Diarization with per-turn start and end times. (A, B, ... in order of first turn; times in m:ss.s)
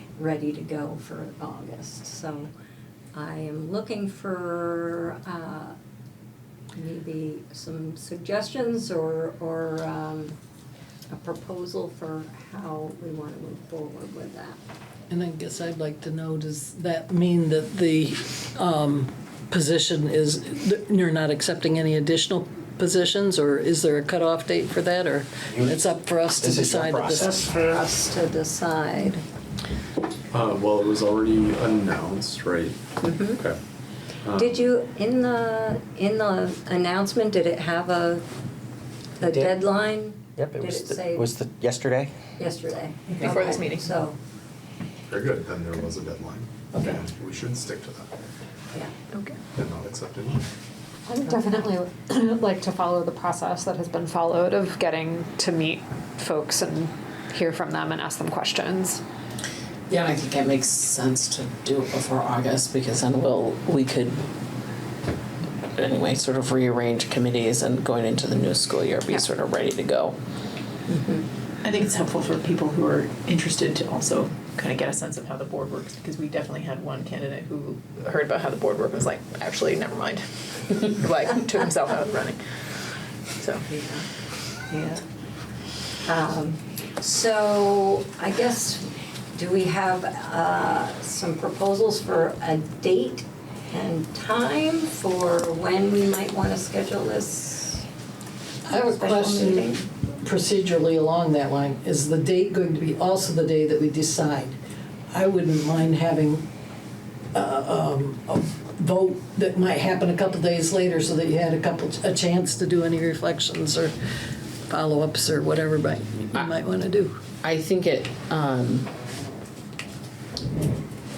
0:00.2-0:02.5 A
0:03.1-0:05.8 A
0:06.7-0:10.4 A
0:11.1-0:14.6 A
0:15.1-0:27.4 B
0:25.5-0:27.5 C
0:27.1-0:29.2 A
0:30.3-0:32.8 D
0:33.0-0:33.4 A
0:34.2-0:34.6 D
0:34.4-0:38.3 A
0:39.2-0:41.3 A
0:39.2-0:39.6 C
0:40.4-0:42.1 C
0:42.4-0:44.2 A
0:43.1-0:44.0 E
0:45.1-0:48.1 D
0:46.8-0:47.0 E
0:49.6-0:50.4 D
0:51.1-0:59.0 F
0:59.9-1:04.2 G
1:05.8-1:10.2 G
1:10.9-1:11.2 A
1:11.6-1:22.4 E
1:23.6-1:24.1 A
1:24.7-1:25.0 A
1:26.1-1:37.9 A
1:38.7-1:44.6 B
1:38.7-1:39.8 A
1:45.1-1:46.5 B
1:47.3-1:53.9 B
1:54.7-1:57.1 B
1:57.4-1:58.9 G